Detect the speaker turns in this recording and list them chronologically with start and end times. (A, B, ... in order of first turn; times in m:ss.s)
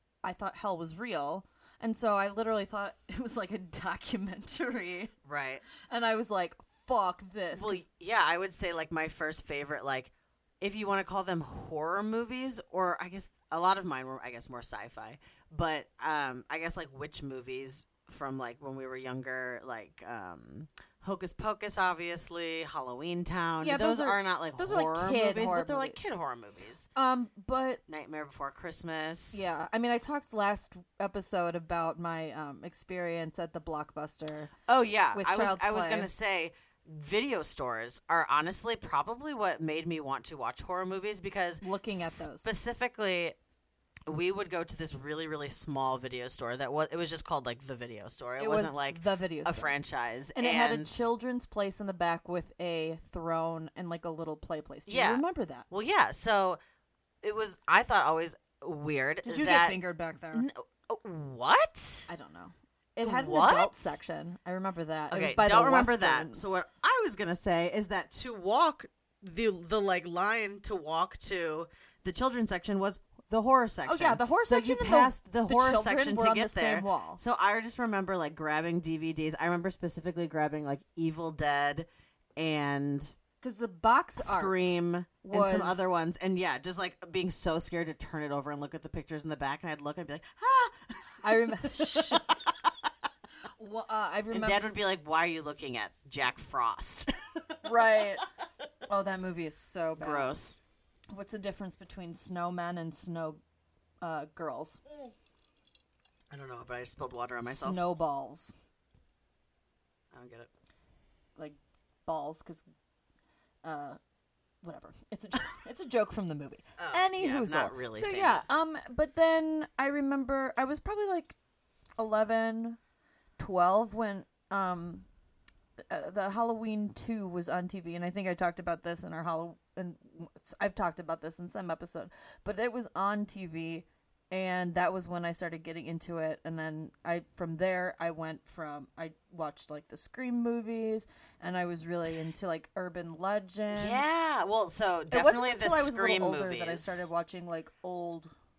0:00.2-0:05.1 A
0:05.2-0:05.6 B
0:05.8-0:07.8 A
0:07.6-0:26.9 B
0:23.6-0:26.0 A
0:27.0-0:27.8 A
0:27.9-0:29.5 B
0:29.3-0:34.5 A
0:34.7-0:43.4 B
0:35.1-0:36.1 A
0:41.6-0:42.5 A
0:44.1-0:51.1 B
0:48.4-0:49.8 A
0:50.4-0:55.7 A
0:54.9-0:56.6 B
0:57.2-1:02.1 B
0:59.2-1:00.4 A
1:02.1-1:06.5 A
1:03.0-1:04.0 B
1:05.1-1:23.1 B
1:13.9-1:17.2 A
1:23.4-1:25.9 A
1:24.2-1:32.9 B
1:31.2-1:32.4 A
1:33.6-1:34.7 A
1:34.3-1:37.6 B
1:37.6-1:38.2 A
1:38.9-1:40.4 A
1:40.0-1:40.6 B
1:41.1-1:43.4 A
1:44.0-1:44.8 A
1:46.3-1:47.8 B
1:47.4-1:48.5 A
1:50.1-1:50.5 B
1:51.4-1:52.7 A
1:53.6-1:54.0 A
1:54.6-2:01.4 A
1:56.8-1:58.4 B
2:02.0-2:02.8 A
2:03.4-2:05.1 A
2:05.9-2:24.0 A
2:23.7-2:27.1 B
2:25.1-2:28.3 A